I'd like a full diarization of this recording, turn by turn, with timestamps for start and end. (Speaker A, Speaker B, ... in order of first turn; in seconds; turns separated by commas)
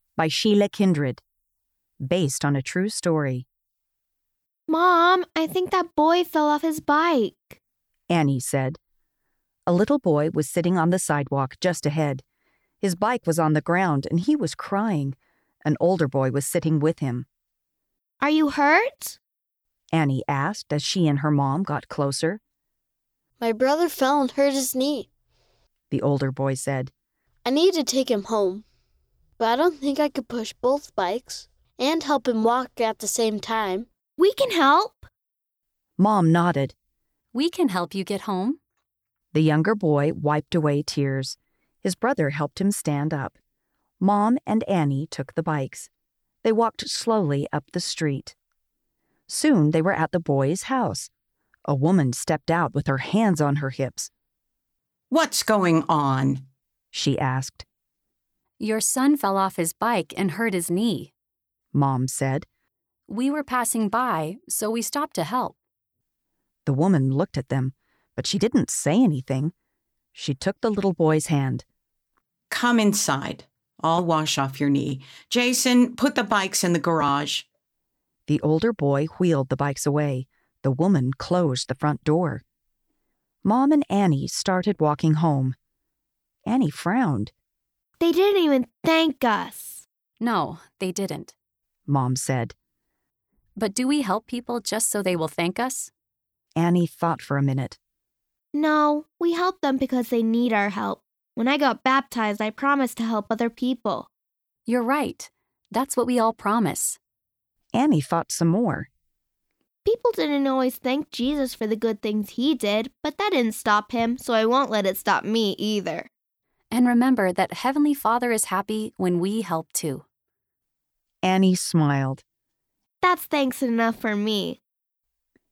Speaker A: 0.2-1.2, Speaker A: 2.0-3.5, Speaker B: 4.7-7.6, Speaker A: 8.1-8.8, Speaker A: 9.7-12.2, Speaker A: 12.8-17.3, Speaker B: 18.2-19.2, Speaker A: 19.9-22.4, Speaker C: 23.4-25.1, Speaker A: 25.9-26.9, Speaker C: 27.4-28.6, Speaker C: 29.4-33.9, Speaker B: 34.2-35.1, Speaker A: 36.0-36.7, Speaker D: 37.3-38.6, Speaker A: 39.3-43.4, Speaker A: 44.0-45.9, Speaker A: 46.4-48.3, Speaker A: 49.3-51.1, Speaker A: 51.7-54.1, Speaker E: 55.1-56.4, Speaker A: 56.9-57.6, Speaker D: 58.6-61.1, Speaker A: 61.7-62.5, Speaker D: 63.1-65.6, Speaker A: 66.7-69.5, Speaker A: 70.2-71.7, Speaker E: 72.5-77.5, Speaker A: 78.3-82.4, Speaker A: 83.4-85.5, Speaker A: 86.5-87.3, Speaker B: 88.0-89.8, Speaker D: 90.2-91.3, Speaker A: 91.9-92.5, Speaker D: 93.6-95.9, Speaker A: 96.5-97.8, Speaker B: 98.5-104.1, Speaker D: 104.7-107.0, Speaker A: 107.7-108.9, Speaker B: 109.8-116.1, Speaker D: 116.7-120.0, Speaker A: 121.2-122.2, Speaker B: 123.0-124.6